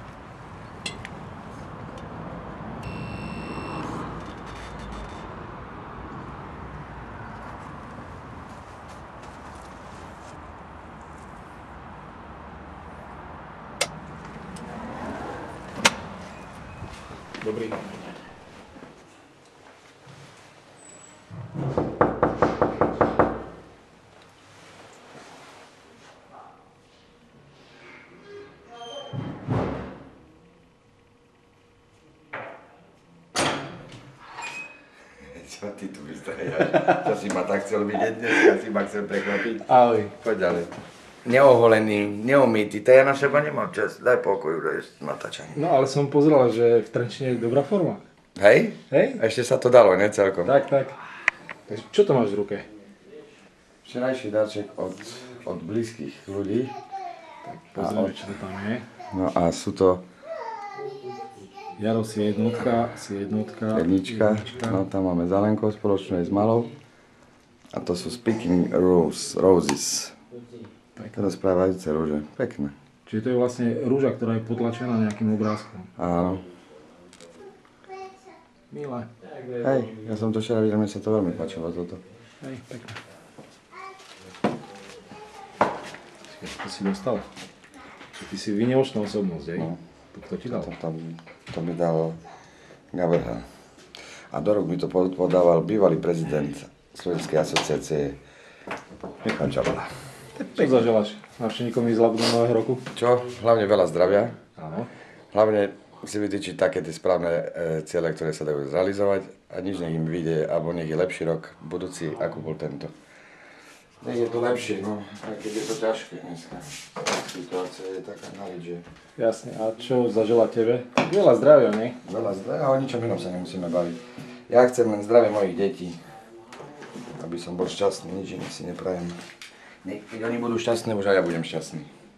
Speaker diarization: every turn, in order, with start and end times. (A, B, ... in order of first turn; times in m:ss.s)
0:17.4-0:17.8 A
0:35.2-0:40.7 B
0:39.6-0:40.1 A
0:41.2-0:45.6 B
0:45.5-0:48.0 A
0:48.4-0:50.5 B
0:48.9-0:49.2 A
0:50.4-0:51.0 A
0:51.7-0:52.7 A
0:53.8-0:56.8 B
0:57.4-0:58.9 A
0:57.8-0:58.2 B
0:59.1-1:00.0 B
1:01.8-1:04.8 A
1:03.7-1:06.7 B
1:07.7-1:10.2 B
1:11.0-1:11.2 A
1:11.1-1:12.7 B
1:13.0-1:15.9 A
1:16.0-1:16.4 B
1:18.7-1:19.1 A
1:19.6-1:22.0 B
1:22.4-1:23.0 A
1:26.3-1:27.2 A
1:28.1-1:30.7 A
1:30.5-1:32.2 B
1:32.9-1:33.4 B
1:34.3-1:38.2 B
1:39.2-1:39.9 B
1:40.4-1:42.8 A
1:42.9-1:44.4 B
1:44.6-1:44.9 A
1:45.3-1:52.9 B
1:54.0-1:58.8 B
1:59.2-2:02.0 A
2:02.0-2:06.0 B
2:07.1-2:09.2 B
2:09.8-2:11.9 B